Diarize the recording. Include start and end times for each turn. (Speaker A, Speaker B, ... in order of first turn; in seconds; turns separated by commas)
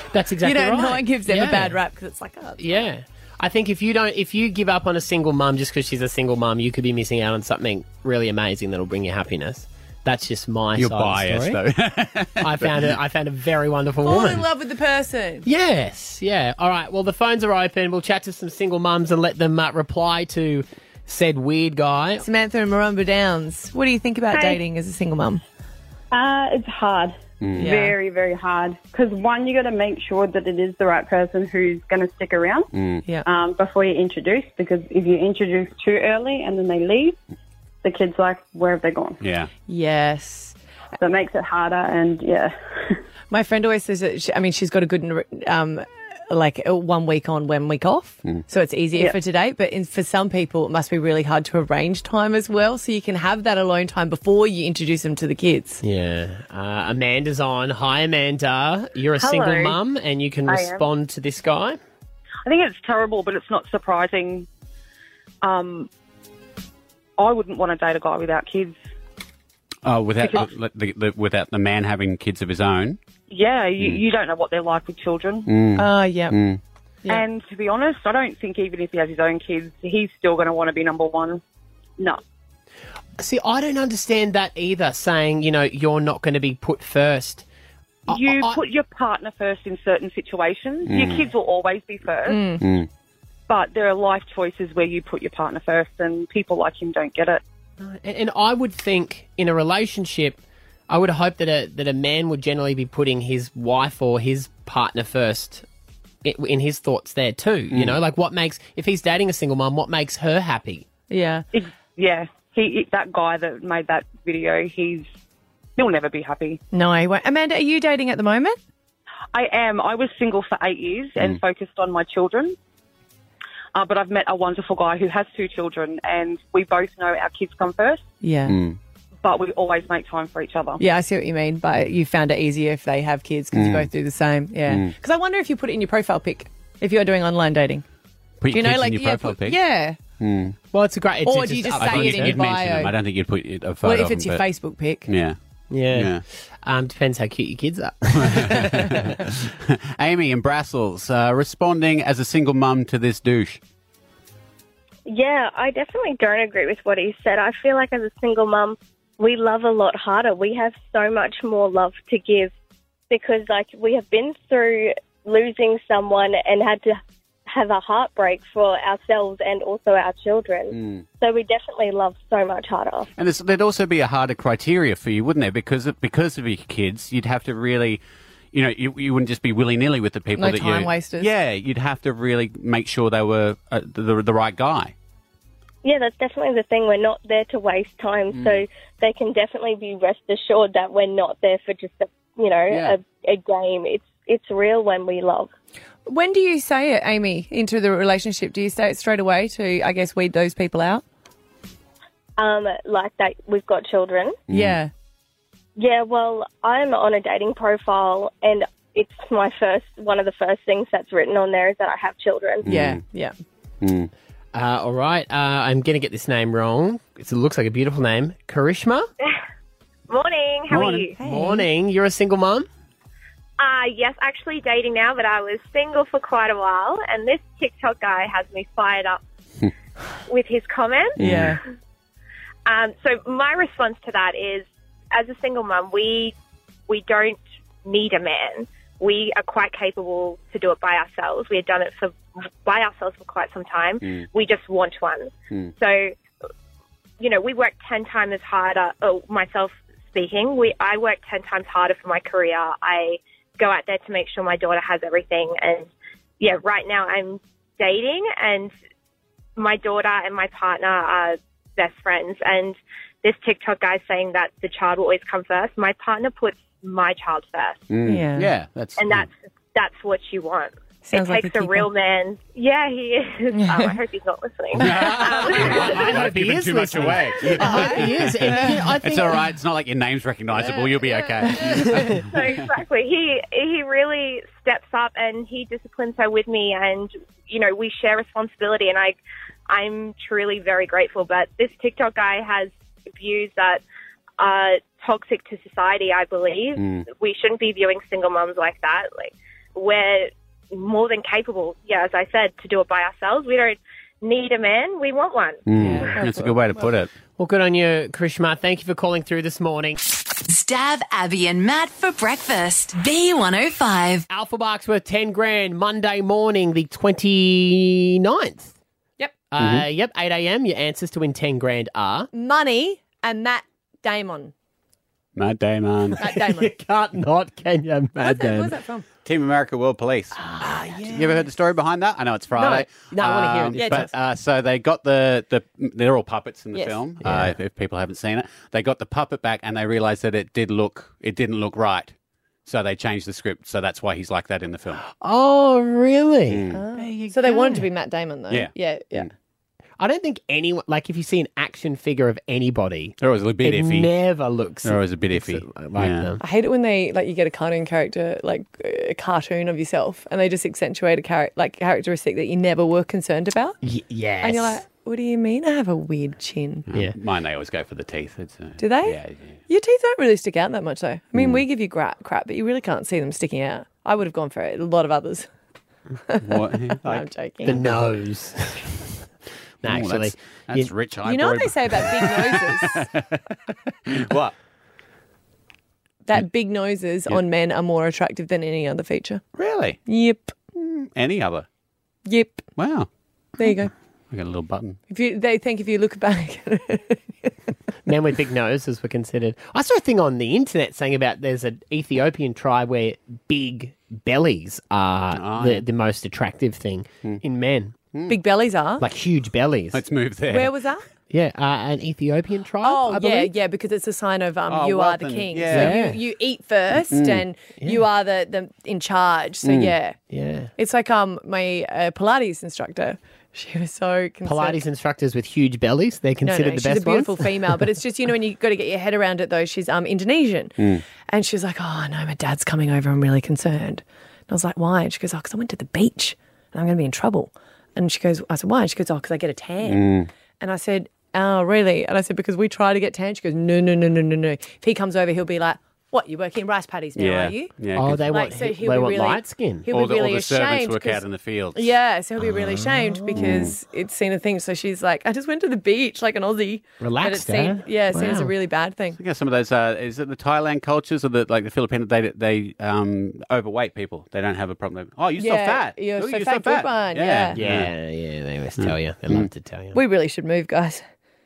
Speaker A: 0.1-1.8, Speaker B: 0.4-2.8, Speaker A: 2.6-11.6, Speaker C: 10.8-12.9, Speaker A: 12.4-14.4, Speaker B: 14.1-15.5, Speaker A: 15.4-22.2, Speaker B: 22.2-25.4, Speaker D: 26.1-32.7, Speaker C: 27.4-27.7, Speaker B: 27.6-28.0, Speaker C: 32.7-33.0, Speaker D: 33.2-37.2, Speaker D: 37.8-39.2, Speaker C: 39.2-39.5, Speaker B: 39.7-40.6, Speaker D: 41.0-43.0, Speaker B: 43.3-55.8, Speaker A: 55.8-61.8, Speaker E: 60.5-60.8, Speaker E: 62.5-64.5, Speaker E: 65.4-65.9, Speaker E: 67.2-68.8, Speaker C: 69.8-73.0, Speaker E: 70.2-70.5, Speaker E: 73.3-75.5, Speaker C: 75.5-76.6, Speaker B: 75.8-76.4, Speaker E: 77.1-81.4, Speaker A: 83.2-87.5, Speaker A: 88.1-88.6, Speaker E: 88.1-92.4, Speaker C: 90.9-91.3, Speaker B: 92.3-92.6, Speaker C: 92.6-92.9, Speaker E: 93.5-97.4, Speaker A: 97.8-105.7, Speaker A: 106.2-110.9, Speaker C: 107.7-108.0, Speaker B: 111.1-111.5, Speaker E: 111.5-115.1, Speaker E: 115.8-116.6, Speaker B: 116.7-118.6, Speaker E: 119.3-122.6, Speaker E: 123.8-128.1, Speaker B: 128.2-128.6, Speaker C: 128.5-128.8, Speaker E: 129.2-130.8, Speaker B: 130.8-137.8, Speaker C: 133.5-133.9, Speaker C: 134.7-134.9, Speaker C: 138.4-139.6, Speaker B: 138.5-140.0, Speaker C: 140.2-140.6, Speaker A: 140.7-142.4, Speaker B: 141.3-143.0, Speaker C: 141.8-144.4, Speaker B: 143.8-145.1, Speaker C: 145.1-145.4, Speaker A: 145.7-148.8, Speaker C: 145.9-146.2, Speaker C: 148.2-153.6, Speaker F: 155.1-162.5, Speaker F: 163.1-173.1, Speaker C: 170.7-171.1, Speaker C: 173.2-178.0, Speaker C: 178.5-184.9, Speaker B: 180.4-181.3, Speaker F: 185.8-195.5, Speaker C: 188.3-188.7, Speaker C: 192.7-193.0, Speaker B: 196.1-201.0, Speaker F: 202.4-204.4, Speaker C: 204.5-204.8, Speaker B: 204.5-204.9, Speaker F: 205.8-212.7, Speaker C: 212.6-213.0, Speaker B: 212.7-213.3, Speaker C: 213.8-214.1, Speaker A: 214.5-219.1, Speaker G: 220.1-221.1, Speaker C: 220.7-221.1, Speaker B: 221.2-221.7, Speaker A: 221.2-222.7, Speaker G: 223.6-229.2, Speaker G: 230.3-231.2, Speaker C: 231.2-231.6, Speaker B: 231.2-231.6, Speaker G: 232.7-236.3, Speaker G: 236.9-246.2, Speaker C: 244.0-244.3, Speaker G: 247.2-255.9, Speaker G: 256.4-258.7, Speaker G: 259.6-267.8, Speaker C: 267.9-269.3, Speaker B: 268.1-268.5, Speaker G: 269.0-276.0, Speaker B: 271.1-271.9, Speaker B: 273.5-273.9, Speaker C: 274.8-282.7, Speaker A: 274.9-279.4, Speaker B: 277.6-278.9, Speaker B: 281.4-282.0, Speaker A: 281.7-282.2, Speaker G: 282.3-293.8, Speaker G: 294.4-305.6, Speaker C: 296.8-297.1, Speaker C: 305.7-307.1, Speaker B: 305.8-306.6, Speaker A: 305.8-306.1, Speaker A: 307.4-310.0, Speaker H: 310.4-314.3, Speaker A: 314.3-318.7, Speaker A: 319.5-322.3, Speaker C: 319.6-319.9, Speaker B: 322.3-324.5, Speaker C: 325.4-326.2, Speaker A: 326.2-328.7, Speaker B: 326.2-326.7, Speaker B: 328.2-329.1, Speaker C: 329.2-330.5, Speaker A: 330.4-331.4, Speaker C: 331.0-342.1, Speaker A: 332.6-334.1, Speaker B: 333.8-334.1, Speaker B: 336.7-337.0, Speaker A: 337.2-337.5, Speaker C: 342.6-345.0, Speaker A: 345.0-347.9, Speaker C: 346.5-346.8, Speaker B: 346.7-349.3, Speaker C: 348.5-349.3, Speaker A: 350.0-356.4, Speaker C: 353.2-354.1, Speaker C: 354.8-356.3, Speaker B: 356.4-363.8, Speaker A: 363.8-364.8, Speaker B: 364.4-366.9, Speaker C: 366.9-369.6, Speaker B: 368.8-375.5, Speaker C: 371.4-371.6, Speaker B: 376.3-377.8, Speaker C: 376.4-377.3, Speaker A: 377.6-379.1, Speaker A: 379.8-380.9, Speaker C: 379.9-383.4, Speaker B: 381.2-383.1, Speaker C: 384.1-384.5, Speaker B: 386.2-389.4, Speaker C: 389.6-390.0, Speaker B: 390.1-390.6, Speaker C: 390.8-391.7, Speaker B: 392.3-392.7, Speaker C: 392.8-393.1, Speaker B: 393.6-393.9, Speaker C: 394.3-395.0, Speaker B: 395.1-397.5, Speaker A: 398.1-407.9, Speaker C: 405.3-405.8, Speaker C: 408.1-408.4, Speaker B: 408.3-409.0, Speaker A: 409.0-410.0, Speaker C: 409.9-410.8, Speaker B: 410.5-411.0, Speaker A: 411.3-413.5, Speaker B: 412.8-420.2, Speaker C: 414.7-416.0, Speaker A: 415.7-416.2, Speaker C: 417.1-417.4, Speaker C: 419.6-420.0, Speaker A: 420.3-420.7, Speaker B: 420.8-424.8, Speaker A: 424.4-427.5, Speaker B: 426.4-440.0, Speaker C: 439.8-440.3, Speaker B: 440.6-447.7, Speaker C: 447.2-448.3, Speaker A: 447.9-449.9, Speaker B: 448.3-451.2, Speaker C: 449.9-452.0, Speaker B: 451.8-459.2, Speaker A: 452.4-453.7, Speaker C: 453.4-453.7, Speaker A: 457.0-458.5, Speaker C: 459.2-467.9, Speaker B: 465.4-467.6, Speaker A: 467.5-470.0, Speaker C: 468.8-469.5, Speaker B: 469.9-471.0